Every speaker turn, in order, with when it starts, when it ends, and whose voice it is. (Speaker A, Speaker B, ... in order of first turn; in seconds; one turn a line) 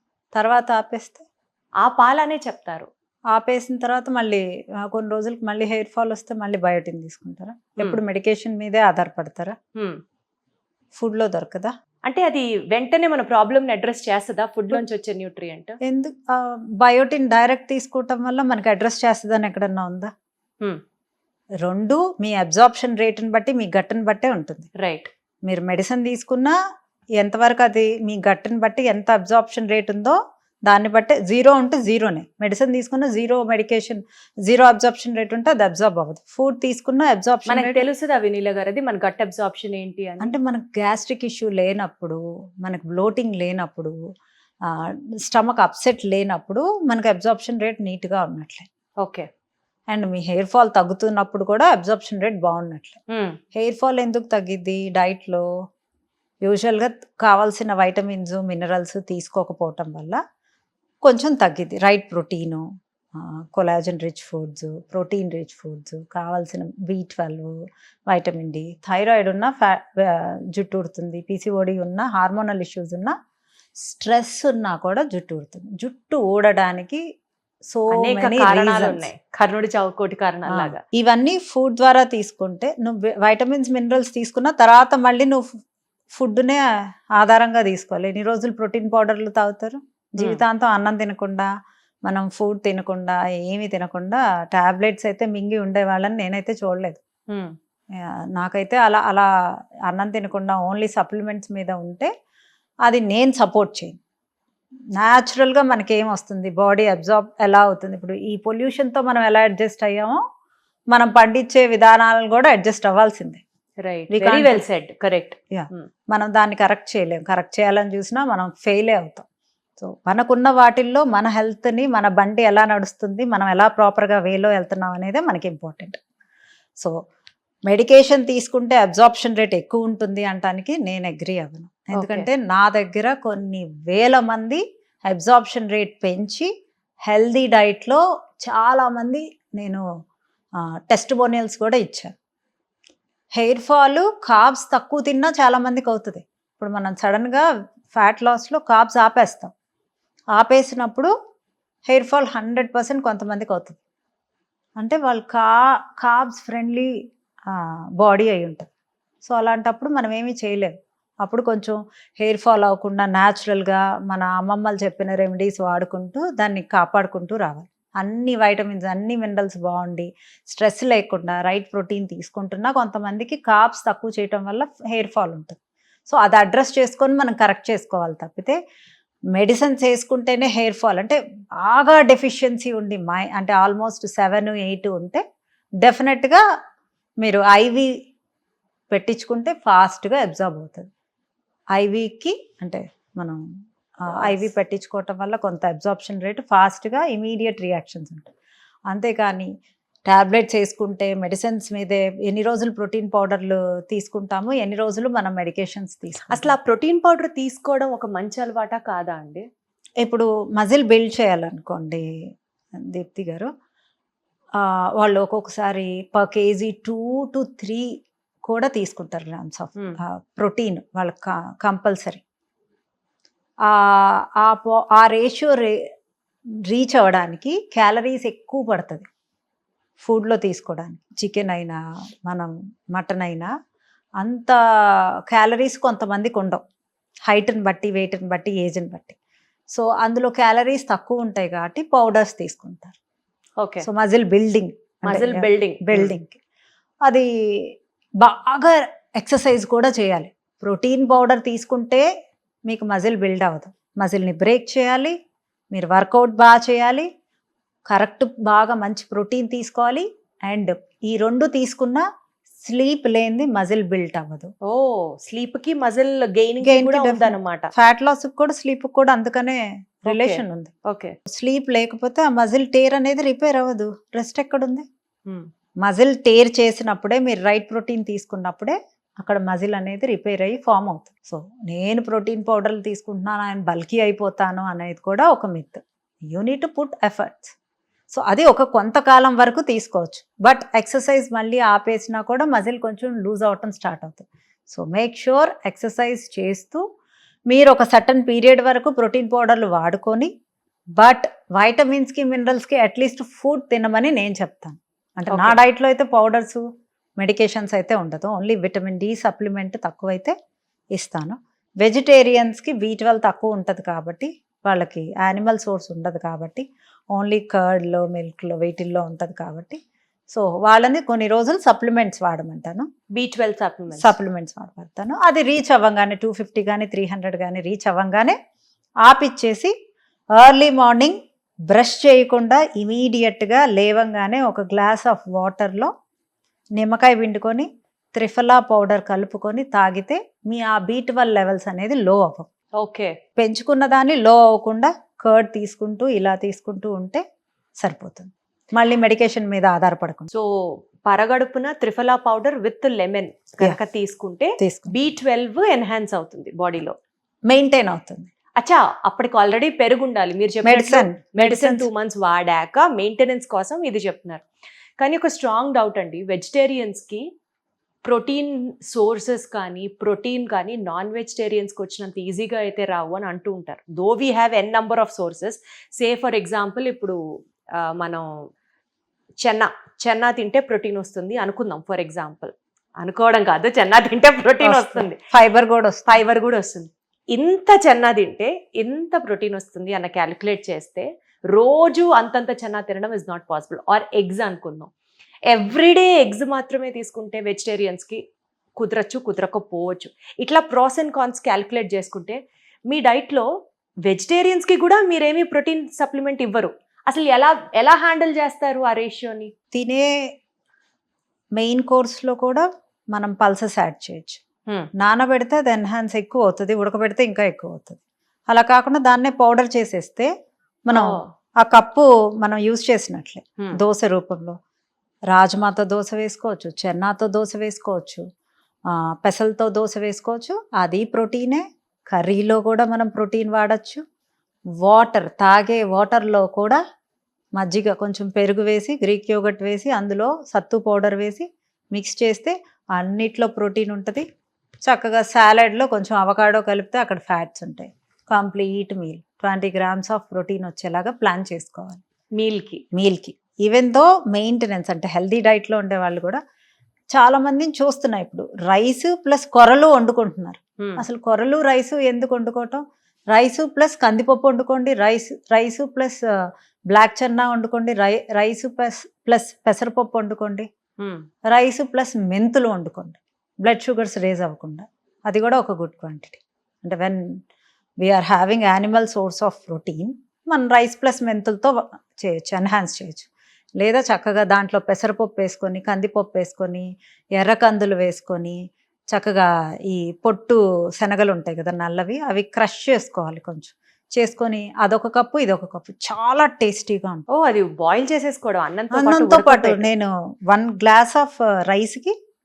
Speaker A: 0.3-1.2
Speaker B: 1.8-2.9
Speaker A: 3.3-9.5
Speaker A: 10.9-11.7
Speaker B: 12.1-15.8
Speaker A: 15.8-20.1
Speaker A: 21.6-24.7
Speaker B: 24.8-25.1
Speaker A: 25.4-26.5
Speaker A: 27.2-30.1
Speaker A: 30.7-37.8
Speaker B: 37.5-40.3
Speaker A: 40.2-43.9
Speaker A: 45.3-48.7
Speaker A: 49.9-53.0
Speaker B: 53.1-53.4
Speaker A: 53.5-55.4
Speaker A: 56.4-60.2
Speaker A: 61.0-62.6
Speaker A: 63.1-67.5
Speaker A: 68.1-73.1
Speaker A: 73.8-77.0
Speaker A: 77.7-79.0
Speaker B: 77.9-80.8
Speaker A: 80.5-85.5
Speaker A: 86.1-86.6
Speaker A: 87.2-91.5
Speaker A: 92.0-97.0
Speaker A: 98.0-99.3
Speaker A: 99.9-102.1
Speaker A: 102.8-104.0
Speaker A: 105.0-110.2
Speaker A: 110.9-113.4
Speaker B: 113.8-115.9
Speaker A: 114.1-114.6
Speaker A: 115.5-119.2
Speaker A: 119.8-126.0
Speaker A: 127.7-136.5
Speaker B: 131.9-132.3
Speaker A: 137.1-139.8
Speaker A: 140.9-142.1
Speaker A: 143.3-149.5
Speaker A: 150.3-151.1
Speaker A: 151.9-153.8
Speaker A: 154.8-156.9
Speaker A: 157.5-158.7
Speaker A: 159.2-178.6
Speaker A: 179.3-185.2
Speaker A: 185.8-186.4
Speaker A: 187.2-187.9
Speaker A: 188.9-190.9
Speaker A: 191.7-193.4
Speaker B: 194.1-194.5
Speaker A: 194.1-198.3
Speaker A: 198.9-199.5
Speaker A: 200.1-206.5
Speaker B: 206.3-209.4
Speaker A: 210.0-212.0
Speaker A: 212.8-213.5
Speaker A: 214.6-217.9
Speaker A: 218.4-222.2
Speaker A: 223.7-225.8
Speaker A: 226.7-229.1
Speaker A: 230.0-233.5
Speaker A: 234.2-234.6
Speaker A: 235.3-236.6
Speaker A: 237.3-239.2
Speaker A: 239.7-243.0
Speaker B: 243.6-243.8
Speaker A: 243.8-246.4
Speaker B: 245.0-246.1
Speaker A: 247.0-252.1
Speaker A: 252.7-255.1
Speaker A: 255.7-257.1
Speaker A: 257.9-262.0
Speaker A: 262.6-264.5
Speaker B: 264.6-267.7
Speaker A: 266.6-270.7
Speaker B: 270.1-271.1
Speaker A: 271.3-274.9
Speaker A: 275.8-287.5
Speaker A: 288.1-296.8
Speaker A: 297.5-300.3
Speaker A: 301.0-306.6
Speaker B: 305.3-305.6
Speaker A: 307.2-310.3
Speaker A: 310.9-322.9
Speaker B: 323.1-324.1
Speaker A: 323.9-328.4
Speaker A: 329.0-329.7
Speaker A: 330.4-331.2
Speaker A: 331.7-335.9
Speaker A: 336.8-342.5
Speaker B: 342.8-343.1
Speaker A: 343.4-347.2
Speaker A: 347.8-350.3
Speaker B: 350.3-356.9
Speaker A: 354.6-354.9
Speaker A: 357.5-358.3
Speaker B: 358.6-364.4
Speaker A: 360.6-361.9
Speaker B: 365.0-367.2
Speaker B: 368.0-377.2
Speaker B: 377.8-378.2
Speaker B: 379.4-385.2
Speaker A: 384.6-386.2
Speaker B: 386.1-394.9
Speaker B: 395.5-398.2
Speaker B: 398.8-402.4
Speaker B: 402.9-403.5
Speaker B: 404.1-409.5
Speaker A: 409.7-410.1
Speaker A: 411.6-414.4
Speaker A: 415.0-420.3
Speaker A: 420.9-424.6
Speaker B: 420.9-421.2
Speaker A: 425.3-428.2
Speaker A: 428.9-434.0
Speaker A: 434.8-436.8
Speaker A: 437.6-444.2
Speaker A: 444.9-452.0
Speaker B: 452.4-452.8
Speaker A: 452.9-456.4
Speaker A: 457.1-466.2
Speaker A: 466.9-470.7
Speaker B: 471.0-471.2
Speaker A: 471.5-477.4
Speaker A: 478.0-483.3
Speaker A: 483.8-488.6
Speaker A: 489.1-497.2
Speaker B: 497.3-499.9
Speaker A: 498.9-502.1